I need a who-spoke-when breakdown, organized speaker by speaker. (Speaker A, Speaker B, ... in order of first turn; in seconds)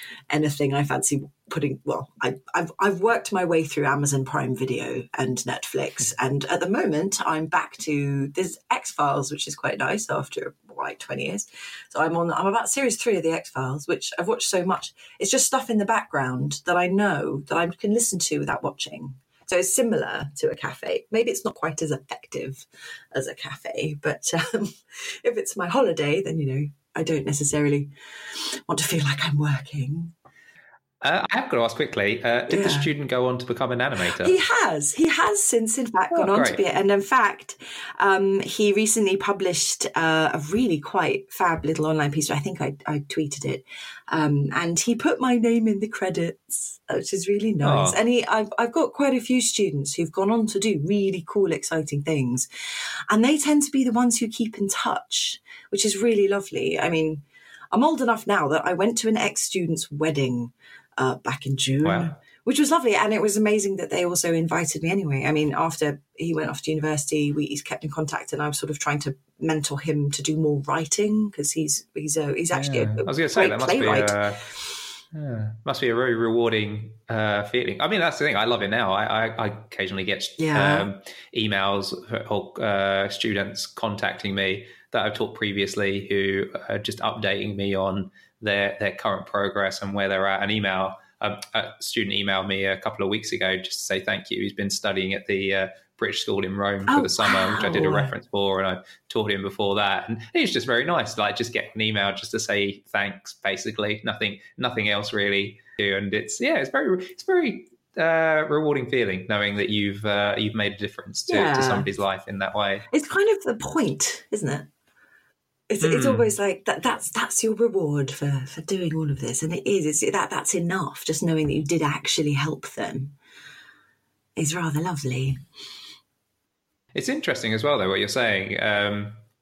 Speaker A: 0.3-30.1, 32.5-32.9, 34.2-52.5, 53.1-74.2, 80.4-80.9, 96.9-98.1, 111.3-111.9, 112.9-114.7, 115.7-123.2, 124.4-125.4
Speaker B: 31.0-34.4, 36.1-36.6, 47.6-48.0, 61.8-62.1, 72.5-74.4, 75.1-112.8, 115.8-116.3, 126.9-129.2